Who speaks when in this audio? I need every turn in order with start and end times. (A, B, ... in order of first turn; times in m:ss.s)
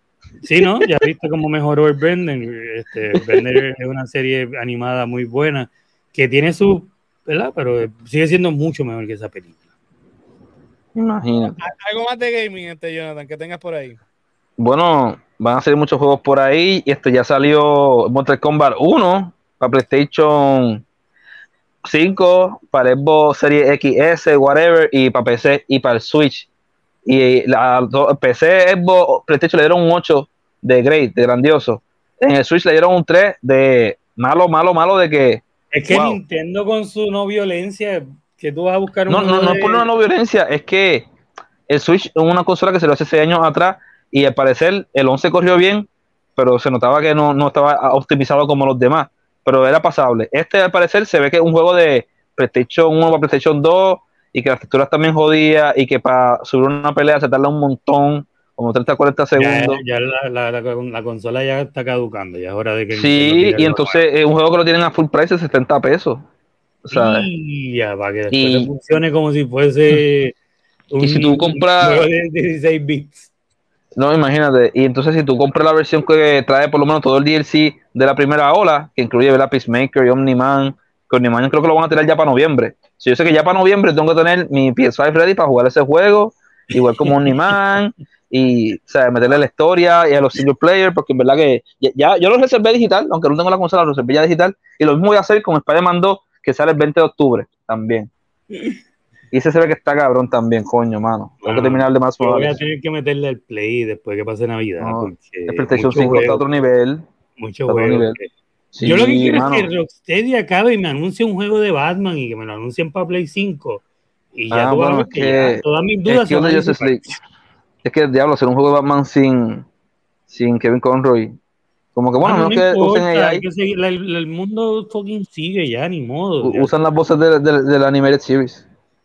0:00.4-0:09.6 A
0:03.2-0:03.4 B
0:10.9-0:11.6 B
0:11.6-0:14.0 C
0:14.6-0:20.8 B
0:21.8-0:26.5 B
0:27.0-0:36.2 B
0:35.7-0:39.8 A
0:39.1-0:41.1 B
0:41.7-0:59.8 B
0:59.4-1:04.0 A
1:02.9-1:06.2 B
1:06.8-1:07.3 B
1:06.9-1:10.3 A
1:08.3-1:08.7 B
1:10.9-1:13.3 A
1:11.0-1:12.1 B
1:14.0-1:38.1 B
1:27.0-1:27.4 A
1:39.3-1:42.6 B
1:41.4-1:46.4 A
1:44.8-1:47.0 B
1:47.4-1:48.3 A
1:47.7-1:48.2 B
1:48.7-1:49.7 B
1:48.8-1:53.8 A
1:54.3-1:57.2 A
1:54.5-1:57.1 B
1:57.8-1:59.6 B
2:00.3-2:01.3 B
2:01.9-2:03.4 B
2:02.2-2:06.7 A
2:06.4-2:08.6 B